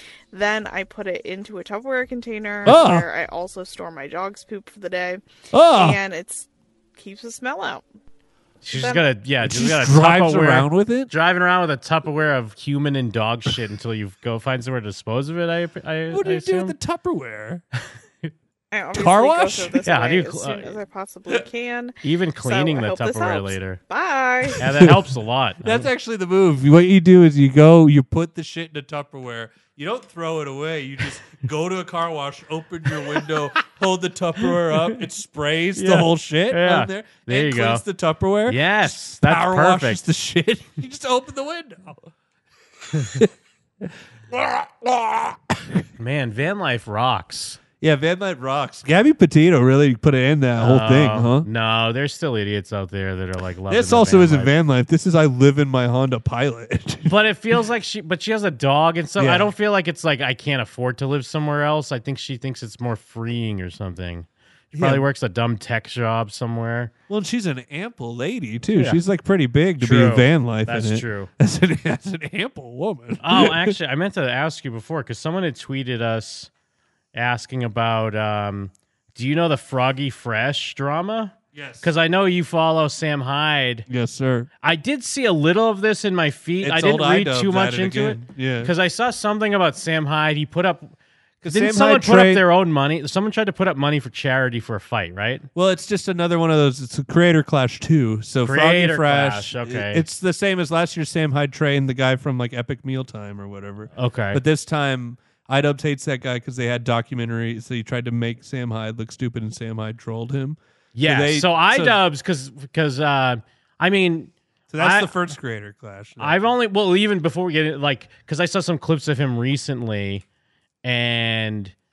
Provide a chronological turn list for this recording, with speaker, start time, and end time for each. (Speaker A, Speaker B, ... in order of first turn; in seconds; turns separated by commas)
Speaker A: 0.3-7.8, Speaker B: 2.6-3.1, Speaker B: 5.5-6.0, Speaker C: 8.6-16.7, Speaker A: 8.8-9.1, Speaker B: 9.4-11.1, Speaker B: 16.1-17.6, Speaker A: 18.7-24.6, Speaker B: 18.9-19.8, Speaker C: 19.8-20.8, Speaker C: 22.0-23.8, Speaker C: 24.6-25.9, Speaker B: 24.7-25.0, Speaker B: 25.6-42.1, Speaker C: 34.7-35.0, Speaker C: 35.8-37.8, Speaker C: 38.5-40.0, Speaker B: 43.8-45.8, Speaker C: 46.0-47.6, Speaker B: 47.8-51.5, Speaker C: 50.6-54.5, Speaker B: 53.7-57.6, Speaker C: 57.0-66.9, Speaker B: 59.2-59.5, Speaker B: 64.7-65.1, Speaker B: 67.1-73.7, Speaker C: 69.8-71.3, Speaker C: 73.2-76.5, Speaker C: 77.1-83.8, Speaker B: 81.5-81.9, Speaker B: 83.9-84.5, Speaker C: 84.6-90.9, Speaker B: 86.6-88.7, Speaker B: 91.4-92.4, Speaker C: 91.5-95.5, Speaker B: 95.5-112.0, Speaker C: 98.4-100.0, Speaker C: 103.9-104.4, Speaker C: 110.9-115.1, Speaker B: 114.7-116.5, Speaker C: 116.2-120.2, Speaker C: 120.8-121.7